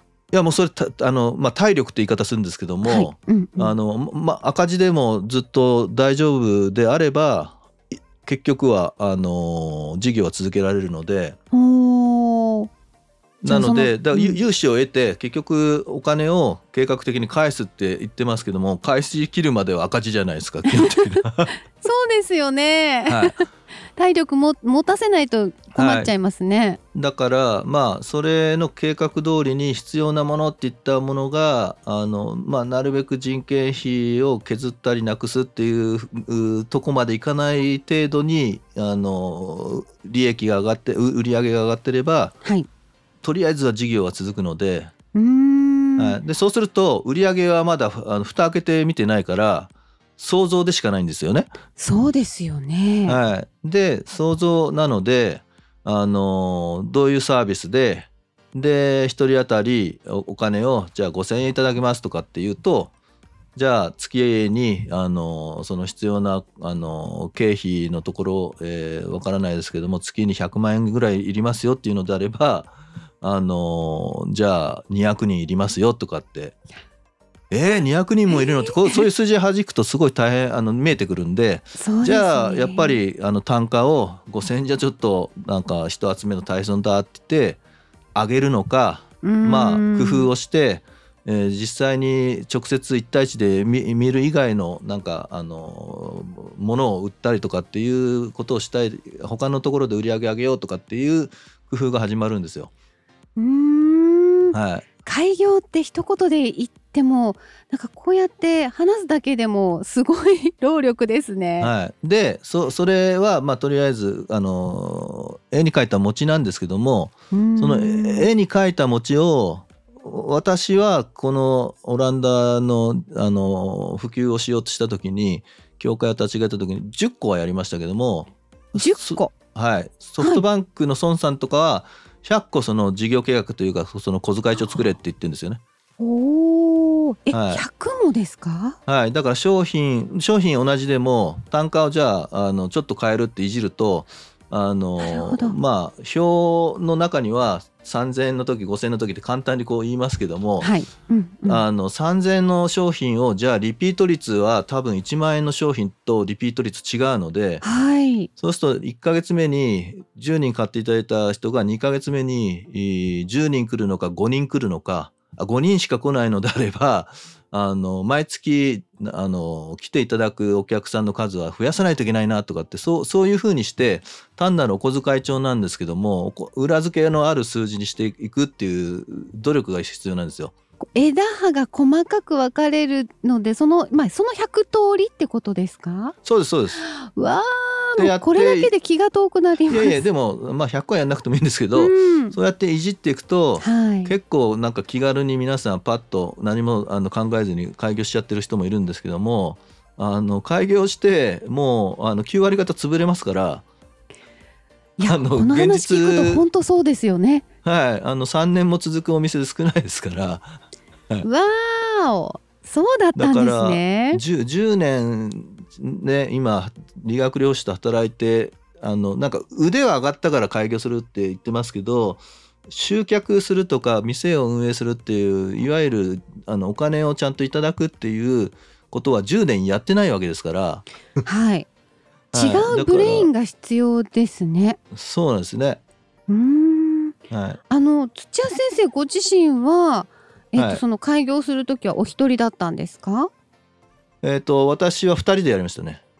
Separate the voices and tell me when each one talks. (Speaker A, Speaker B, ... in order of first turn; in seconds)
Speaker A: 0.3-11.3, 13.4-21.5, 23.1-23.4, 25.7-26.1, 26.9-42.4, 43.2-44.9, 46.0-51.5, 53.0-62.9, 63.5-76.6, 77.5-87.6, 88.1-102.7, 104.5-104.8, 111.6-135.6, 137.3-137.6, 138.9-150.7, 151.4-157.6, 158.4-180.5, 186.2-186.8, 188.0-188.7, 189.7-203.6, 205.0-206.4, 207.6-211.3, 213.1-230.9, 232.3-233.3, 234.9-235.8, 237.3-237.6, 240.6-240.8, 244.2-246.0
Speaker B: 2.8-3.7, 11.5-12.7, 13.4-14.4, 20.7-21.1, 21.8-26.8, 45.1-46.2, 51.8-53.2, 78.3-79.0, 81.7-83.0, 89.2-90.3, 103.4-111.7, 117.3-118.3, 128.7-129.3, 136.0-138.8, 145.0-145.6, 150.6-151.6, 157.6-158.3, 180.9-186.1, 186.8-190.0, 191.7-192.3, 193.6-194.1, 205.0-207.4, 211.2-214.2, 231.2-231.7, 232.3-234.8, 236.3-237.2, 237.7-243.3